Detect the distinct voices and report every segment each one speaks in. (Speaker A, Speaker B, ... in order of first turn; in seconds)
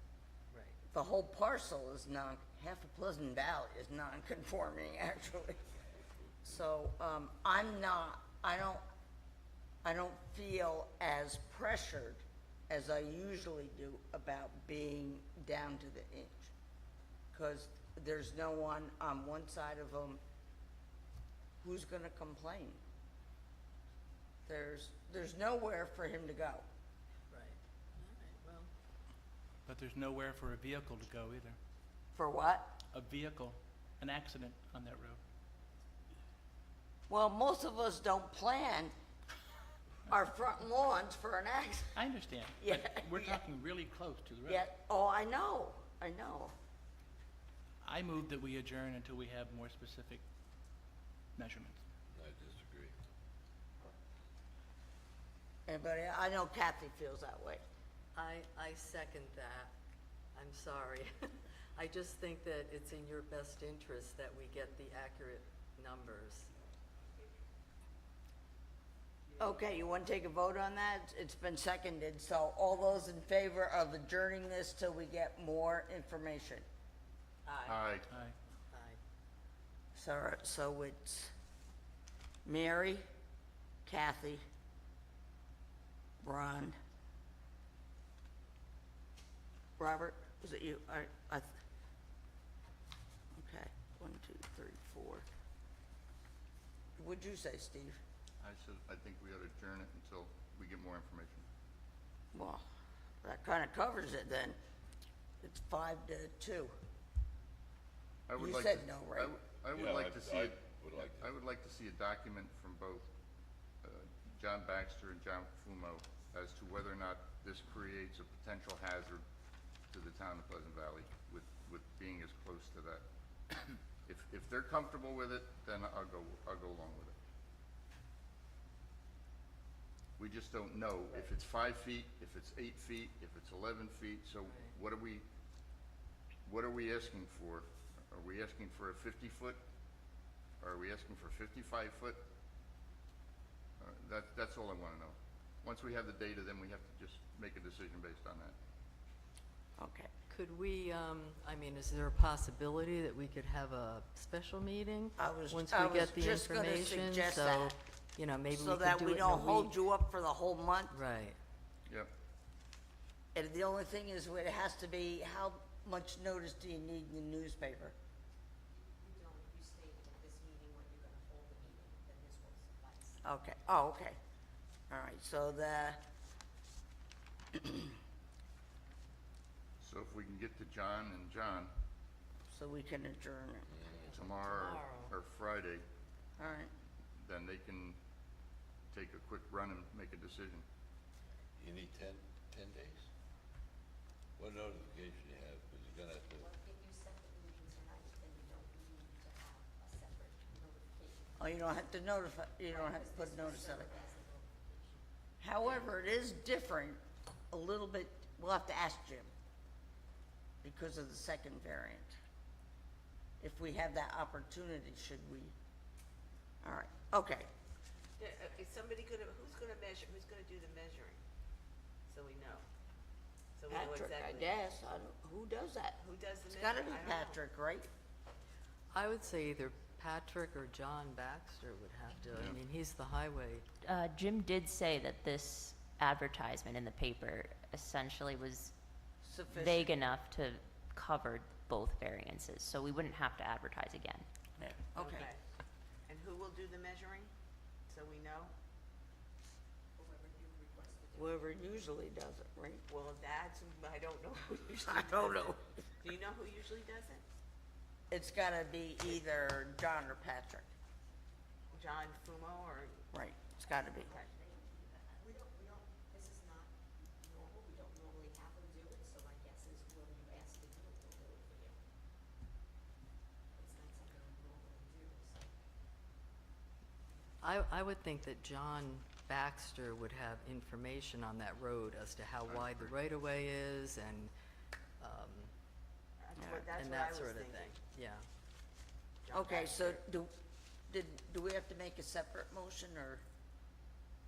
Speaker A: 0.5-0.8, 27.3-28.7, 58.1-59.7, 60.3-66.5, 78.7-79.0, 134.4-134.7, 150.3-159.7, 160.9-161.4, 228.9-233.6, 277.4-284.3, 285.0-285.5, 286.6-288.2
Speaker B: 0.9-5.6, 6.4-8.8, 9.8-16.5, 17.3-20.2, 21.6-22.8, 24.5-26.6, 32.1-32.8, 37.1-38.9, 40.1-41.9, 42.6-43.4, 44.5-46.5, 55.7-57.6, 69.4-76.6, 79.9-81.3, 82.4-83.0, 83.8-84.4, 86.2-86.8, 89.8-91.5, 93.3-95.2, 97.0-98.0, 102.3-102.6, 103.2-104.6, 105.4-106.7, 108.4-109.3, 149.8-150.1, 155.2-157.7, 158.5-161.0, 163.3-167.9, 173.2-174.2, 174.9-176.0, 177.6-177.9, 182.5-183.7, 186.4-186.7, 201.4-203.9, 205.4-207.0, 207.5-209.3, 210.6-212.2, 213.4-215.5, 216.6-217.5, 223.7-227.9, 239.2-239.9, 244.6-245.3, 251.1-252.8, 254.9-255.6, 258.1-260.7, 263.1-264.1, 289.3-290.3, 290.9-293.2
Speaker C: 29.6-31.6, 32.9-35.2, 42.0-44.6, 47.8-50.2, 51.4-51.8, 78.1-78.3
Speaker D: 52.1-53.0, 109.7-111.3, 183.7-184.2, 191.6-193.1, 194.4-196.5
Speaker E: 77.7-78.0, 98.4-101.5, 108.3-113.1, 113.8-119.2, 119.9-123.0, 124.0-127.1, 130.2-135.2, 136.4-139.6, 140.6-142.2, 143.8-148.5, 179.8-181.7, 184.1-185.8, 187.2-188.0, 188.9-190.6, 232.3-232.6, 282.5-282.9
Speaker F: 168.7-173.2, 196.3-201.7, 202.7-205.0, 250.0-251.4, 263.7-271.8, 273.5-275.5
Speaker G: 218.2-221.2, 222.1-222.6, 223.6-224.5, 226.0-227.4, 245.0-245.4, 246.1-247.3, 247.9-248.5, 252.9-257.2, 261.7-263.0, 286.2-287.7, 289.2-289.9
Speaker H: 233.8-244.2